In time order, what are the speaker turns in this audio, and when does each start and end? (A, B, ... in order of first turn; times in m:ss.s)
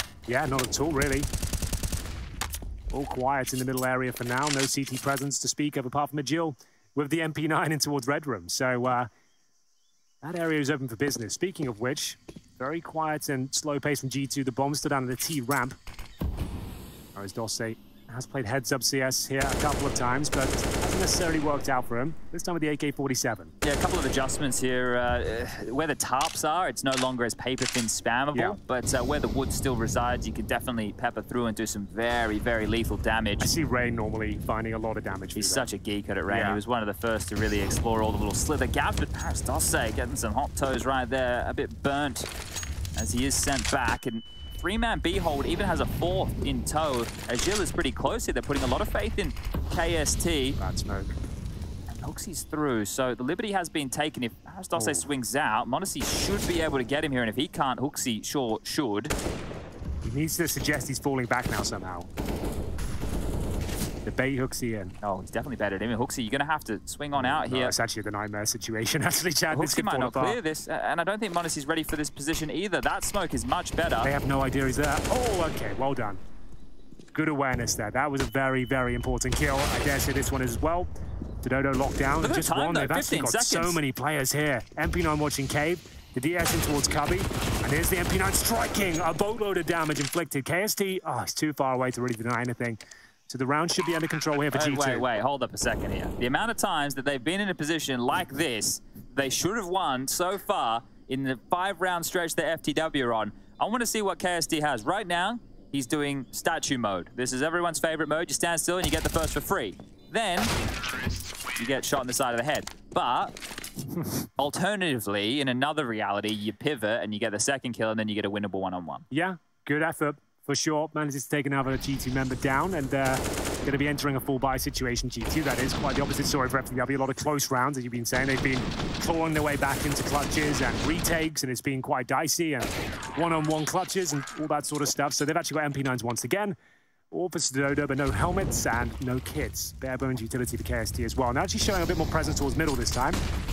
0:00.3-0:01.3 A
0:02.9-0:09.1 A
0:10.2-0:15.8 A
0:17.2-0:23.5 A
0:23.6-0:33.5 B
0:33.4-0:35.7 A
0:35.4-0:42.3 B
0:36.3-0:36.6 A
0:43.0-0:50.6 B
0:50.6-0:51.2 A
0:51.9-0:59.2 B
0:54.8-0:55.1 A
1:00.0-1:02.1 A
1:04.0-1:05.0 A
1:05.0-1:07.8 B
1:07.2-1:10.4 A
1:09.5-1:14.1 B
1:14.0-1:16.2 A
1:17.1-1:20.9 A
1:21.4-1:35.0 A
1:22.2-1:23.8 B
1:34.5-1:50.5 B
1:51.6-1:53.4 B
1:54.4-1:59.1 B
1:59.1-2:16.6 A
2:17.1-2:23.2 A